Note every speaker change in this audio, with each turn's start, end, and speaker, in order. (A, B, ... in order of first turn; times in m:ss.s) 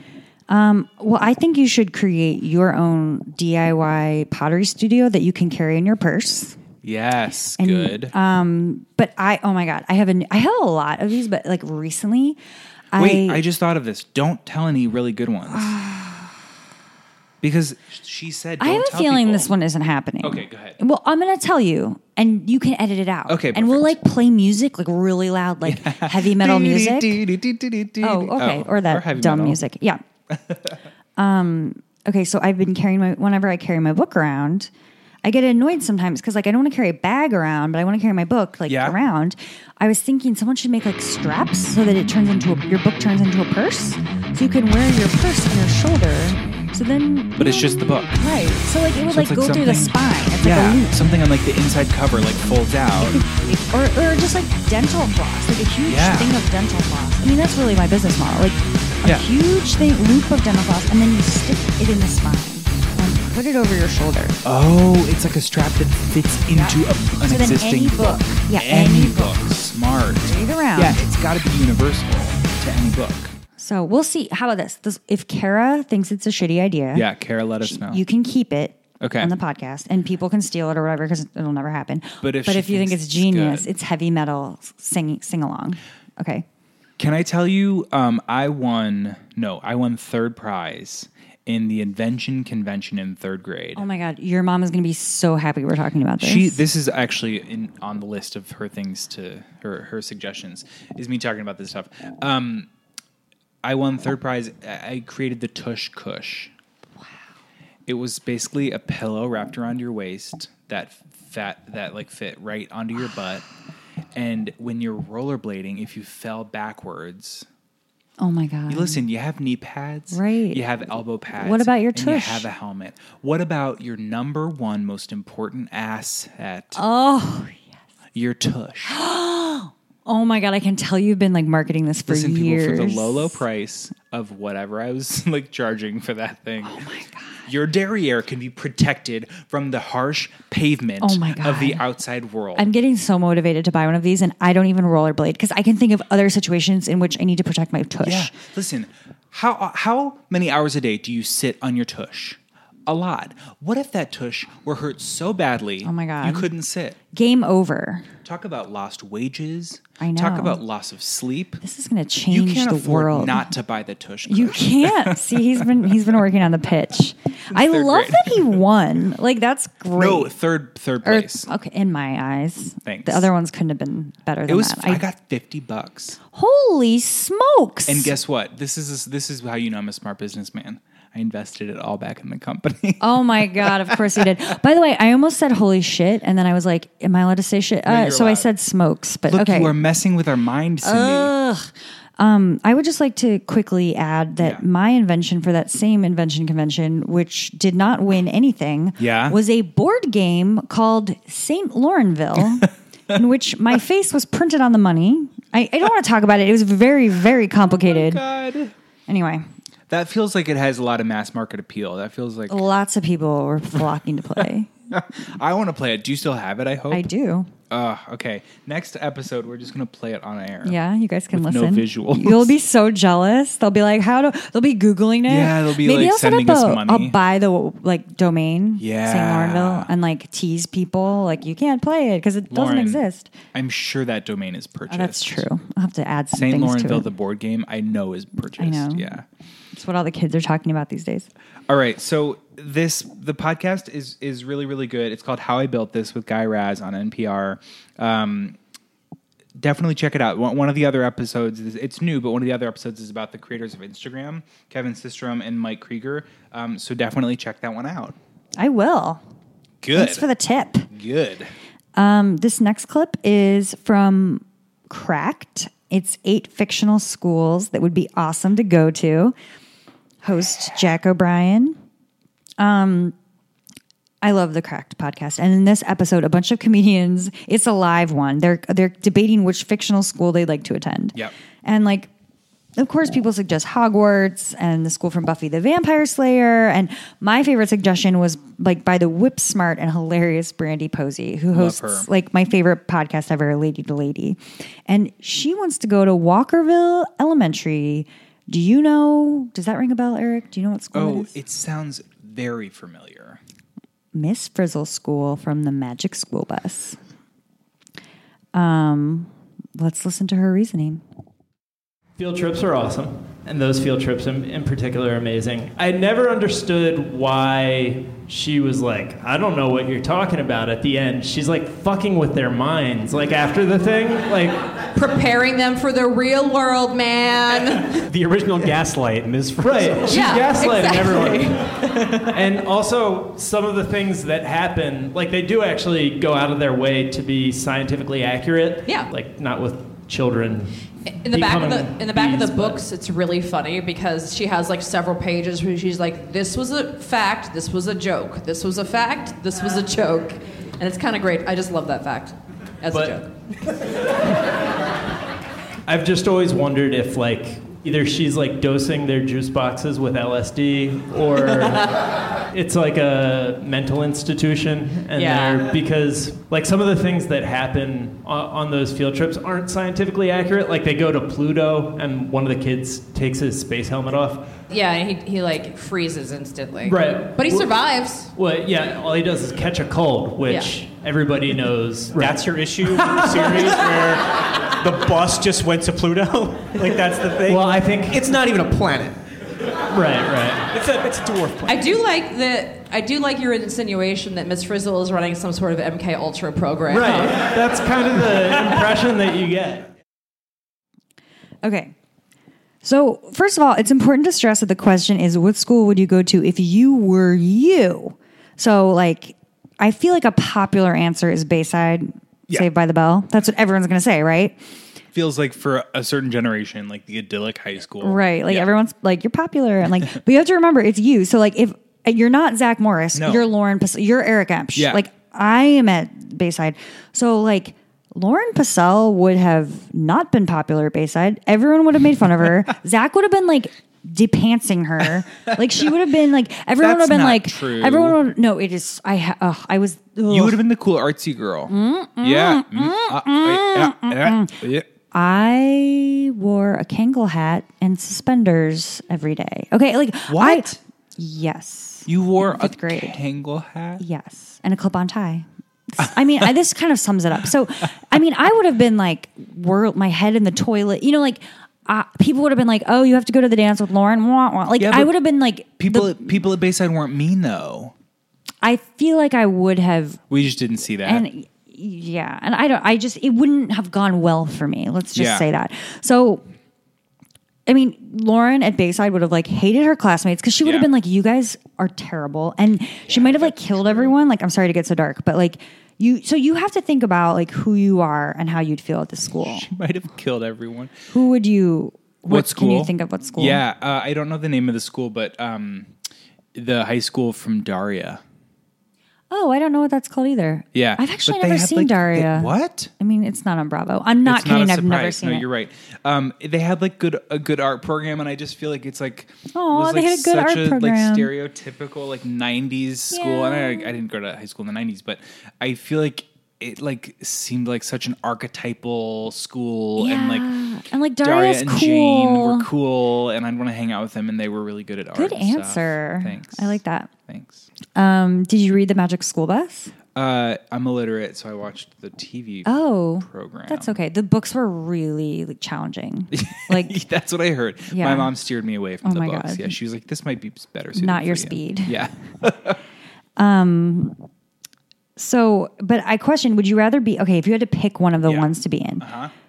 0:00.5-0:06.6 A
0:06.8-0:08.1 B
0:07.6-0:12.4 A
0:12.9-0:13.4 A
0:13.0-0:15.7 B
0:15.5-0:16.3 A
0:17.4-0:19.5 B
0:18.6-0:27.2 A
0:20.2-0:20.8 B
0:23.3-0:24.0 B
0:25.7-0:29.6 B
0:28.0-0:30.0 A
0:30.3-0:30.7 B
0:31.2-0:34.7 A
0:35.2-0:51.1 A
0:38.7-0:39.0 B
0:47.4-0:48.2 B
0:49.0-0:53.2 B
0:53.0-1:04.4 A
0:55.9-0:56.3 B
1:04.4-1:13.3 B
1:06.5-1:11.0 A
1:13.6-1:17.1 A
1:16.9-1:18.0 B
1:17.6-1:26.4 A
1:19.0-1:19.3 B
1:22.2-1:23.7 B
1:27.0-1:33.8 B
1:33.8-1:36.6 A
1:36.2-1:42.7 B
1:43.6-1:46.5 B
1:47.9-1:53.4 B
1:54.1-1:57.5 B
1:58.2-1:59.0 A
1:58.7-2:06.8 B
2:00.1-2:00.6 A
2:01.3-2:02.5 A
2:06.7-2:07.7 A
2:08.1-2:09.0 B
2:08.9-2:13.4 A
2:12.1-2:16.8 B
2:16.6-2:17.5 A
2:17.4-2:22.7 B
2:21.0-2:21.8 A
2:22.6-2:28.4 A
2:28.0-2:37.0 B
2:35.8-2:36.5 A
2:37.1-2:38.1 A
2:38.2-2:41.6 B
2:40.0-2:40.6 A
2:41.6-2:43.5 A
2:42.3-2:45.7 B
2:44.3-2:50.3 A
2:47.5-2:48.6 B
2:50.0-2:51.5 B
2:51.0-2:55.0 A
2:52.8-2:53.3 B
2:54.5-2:56.2 B
2:56.3-2:58.1 A
2:57.9-3:04.2 B
3:03.0-3:09.7 A
3:07.9-3:08.5 B
3:09.3-3:11.3 B
3:10.8-3:28.2 A
3:14.4-3:14.6 B
3:19.0-3:19.4 B
3:27.9-3:28.7 B
3:29.1-3:29.4 A
3:29.9-3:32.7 B
3:32.5-3:34.7 A
3:34.9-3:37.1 B
3:36.9-3:37.5 A
3:37.7-3:40.8 B
3:40.6-3:53.3 A
3:41.3-3:42.6 B
3:45.3-3:47.2 B
3:48.8-3:49.9 B
3:52.5-3:53.0 B
3:53.5-3:55.4 B
3:54.9-3:57.1 A
3:56.4-3:59.2 B
3:58.6-3:59.1 A
3:59.7-4:01.3 A
4:01.7-4:08.6 B
4:09.6-4:18.2 B
4:18.6-4:19.2 A
4:19.8-4:20.3 B
4:19.9-4:20.9 A
4:20.9-4:21.5 B
4:22.0-4:29.4 A
4:30.2-4:31.8 A
4:32.6-4:33.1 A
4:34.2-4:42.1 A
4:42.8-5:01.4 A
4:51.5-4:52.1 B
5:00.9-5:03.4 B
5:04.1-5:07.0 A
5:08.5-5:11.0 A
5:12.2-5:24.6 C
5:24.9-5:28.0 D
5:28.1-5:30.5 E
5:29.6-5:40.7 C
5:30.1-5:31.6 D
5:38.9-5:39.1 D
5:41.2-5:53.3 D
5:41.3-5:42.8 C
5:52.9-5:53.2 C
5:55.9-6:14.4 C
6:05.1-6:05.7 D
6:14.7-6:18.3 D
6:16.8-6:17.8 C
6:18.3-6:22.5 C
6:20.4-6:20.8 D
6:22.1-6:29.2 E
6:23.1-6:23.7 C
6:27.5-6:28.3 C
6:29.9-6:30.7 C
6:30.7-6:31.8 E
6:31.6-6:37.6 D
6:36.9-6:39.9 C
6:41.6-6:41.9 A
6:42.8-6:54.6 A
6:55.1-6:58.7 B
6:58.0-7:20.6 A
7:03.1-7:03.5 B
7:04.8-7:05.0 B
7:15.5-7:15.8 B
7:16.8-7:18.2 B
7:20.3-7:24.9 B
7:21.7-7:24.6 A
7:25.1-7:33.2 A
7:30.3-7:30.8 B
7:32.1-7:34.0 B
7:34.0-7:46.4 A
7:44.8-7:45.1 B
7:45.8-7:47.9 B
7:48.6-7:50.2 A
7:50.3-7:51.2 B
7:51.0-7:56.4 A
7:55.1-7:55.5 B
7:57.7-8:09.7 A
8:03.1-8:04.2 B
8:09.4-8:11.0 B
8:11.1-8:13.6 A
8:12.3-8:15.9 B
8:16.5-8:18.2 B
8:19.3-8:25.4 A
8:20.7-8:22.9 B
8:24.2-8:40.5 B
8:29.5-8:31.3 A
8:33.1-8:33.9 A
8:40.0-8:42.7 A
8:41.2-8:47.7 B
8:45.1-8:47.1 A
8:48.0-8:49.9 A
8:50.1-8:54.0 B
8:52.7-8:57.0 A
8:56.3-9:02.8 B
8:57.9-8:58.3 A
8:59.0-8:59.8 A
9:01.0-9:02.0 A
9:03.4-9:04.2 A
9:05.2-9:09.0 A
9:08.2-9:09.3 B